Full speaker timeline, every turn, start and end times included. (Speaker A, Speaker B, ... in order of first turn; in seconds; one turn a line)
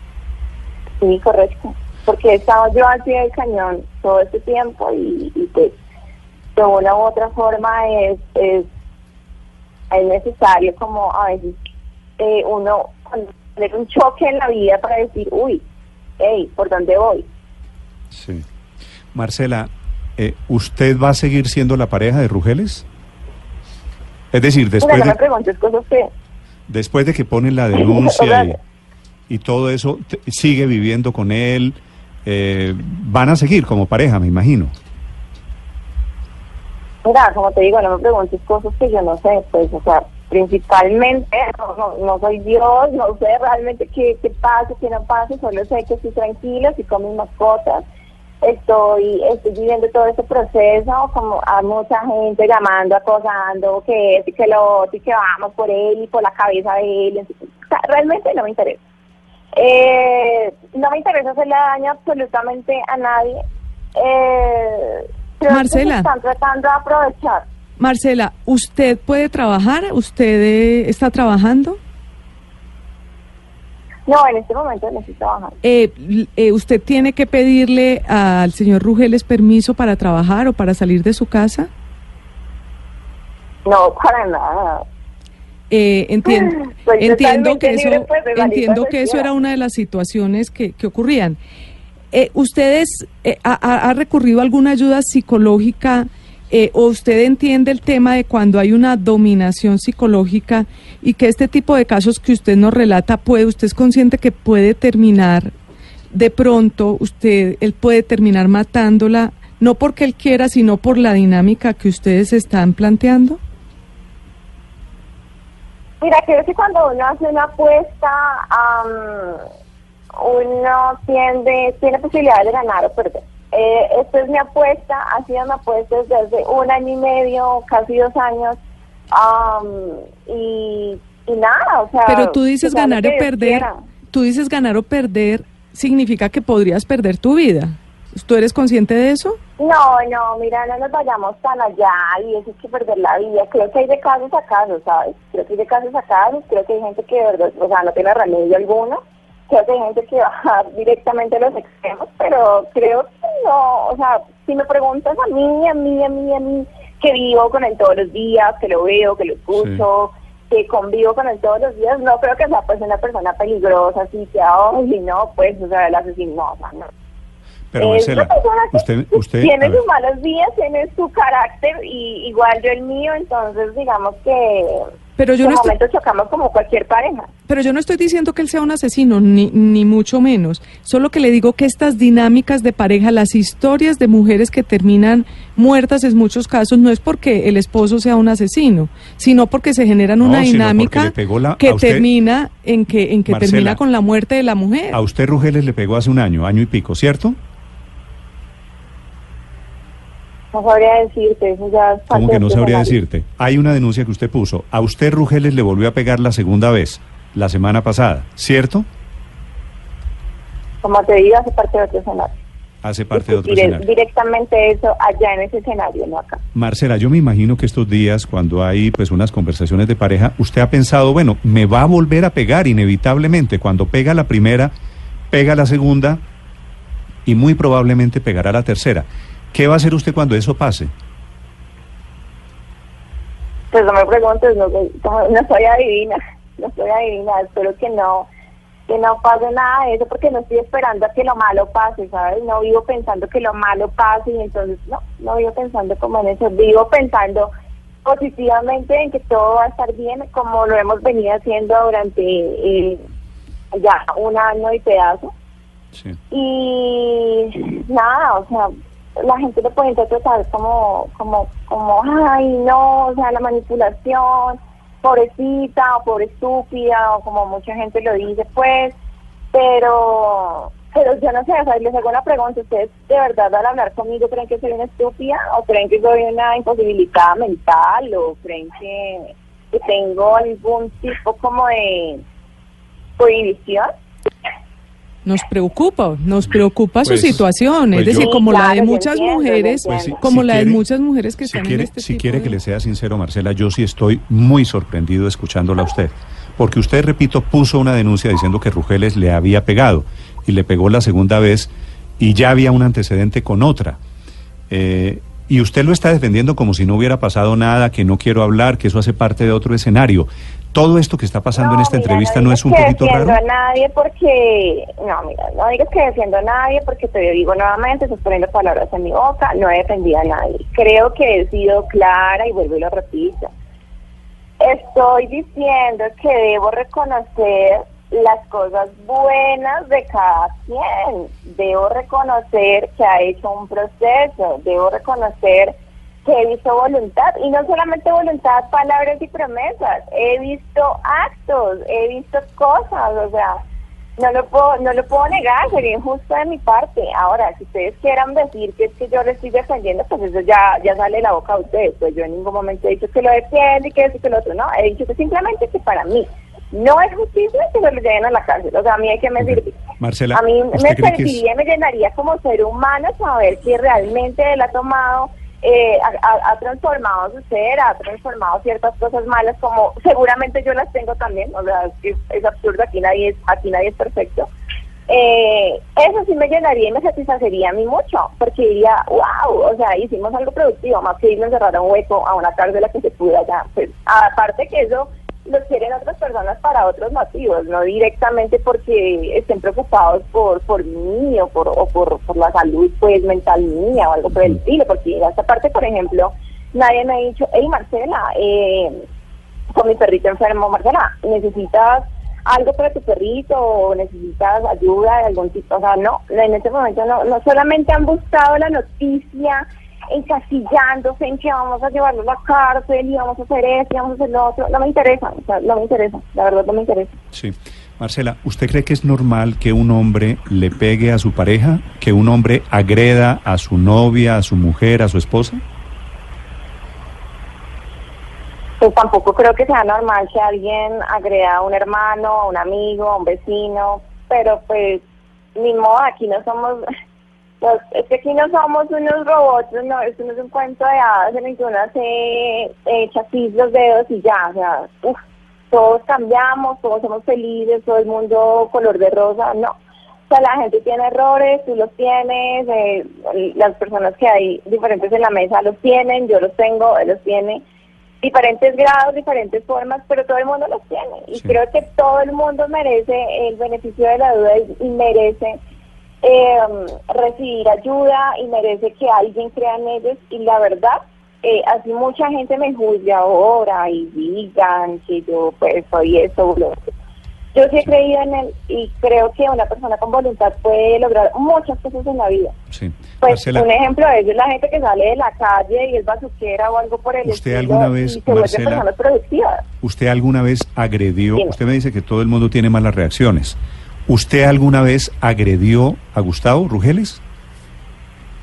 Speaker A: 1.0-5.8
Speaker A: 6.5-8.7
Speaker A: 9.9-11.6
Speaker A: 12.2-15.6
Speaker A: 16.2-17.3
Speaker B: 18.1-18.4
Speaker B: 19.1-22.9
Speaker B: 24.3-25.2
Speaker A: 24.8-26.1
Speaker B: 26.7-28.6
Speaker A: 27.7-28.6
Speaker B: 29.3-34.7
Speaker A: 37.0-47.8
Speaker A: 48.4-58.8
Speaker A: 59.5-63.4
Speaker A: 63.9-67.5
Speaker C: 65.5-66.1
Speaker C: 67.8-71.8
Speaker A: 74.0-75.5
Speaker C: 75.6-81.7
Speaker A: 83.6-84.8
Speaker C: 85.7-91.4
Speaker A: 86.2-89.3
Speaker C: 92.1-105.5
Speaker C: 106.1-113.4
Speaker A: 116.0-119.5
Speaker A: 120.1-128.6
Speaker A: 129.1-133.8
Speaker C: 132.1-139.4
Speaker A: 139.6-166.9
Speaker B: 159.6-159.8
Speaker B: 167.7-169.8
Speaker A: 167.8-174.8
Speaker C: 175.2-175.7
Speaker A: 175.4-177.3
Speaker C: 177.5-195.0
Speaker B: 190.2-192.1
Speaker B: 193.3-193.8
Speaker B: 194.9-197.4
Speaker A: 200.5-202.9
Speaker B: 202.1-208.9
Speaker A: 210.8-212.4
Speaker B: 212.8-213.8
Speaker A: 213.1-216.4
Speaker B: 216.5-224.7
Speaker B: 225.3-226.2
Speaker B: 227.2-230.9
Speaker A: 233.7-238.3
Speaker A: 238.9-247.5
Speaker A: 248.0-253.0
Speaker A: 253.7-255.3
Speaker B: 255.9-256.2
Speaker A: 256.3-269.0
Speaker A: 269.5-282.2
Speaker A: 283.2-283.9
Speaker C: 285.2-292.6
Speaker B: 287.0-288.3
Speaker A: 288.1-290.2
Speaker B: 289.9-290.8
Speaker B: 291.4-304.0
Speaker B: 304.7-313.4
Speaker A: 311.6-323.5
Speaker A: 324.6-343.6
Speaker A: 344.2-359.8
Speaker B: 359.4-361.4
Speaker A: 360.3-374.5
Speaker A: 375.1-399.0
Speaker A: 399.7-417.1
Speaker B: 417.3-425.6
Speaker A: 428.8-435.0
Speaker A: 435.6-436.9
Speaker A: 437.6-449.8
Speaker A: 450.3-457.6
Speaker A: 458.2-465.6
Speaker A: 466.2-476.9
Speaker A: 477.5-482.5
Speaker B: 482.7-483.7
Speaker A: 483.2-489.6
Speaker B: 487.2-488.9
Speaker B: 489.8-497.2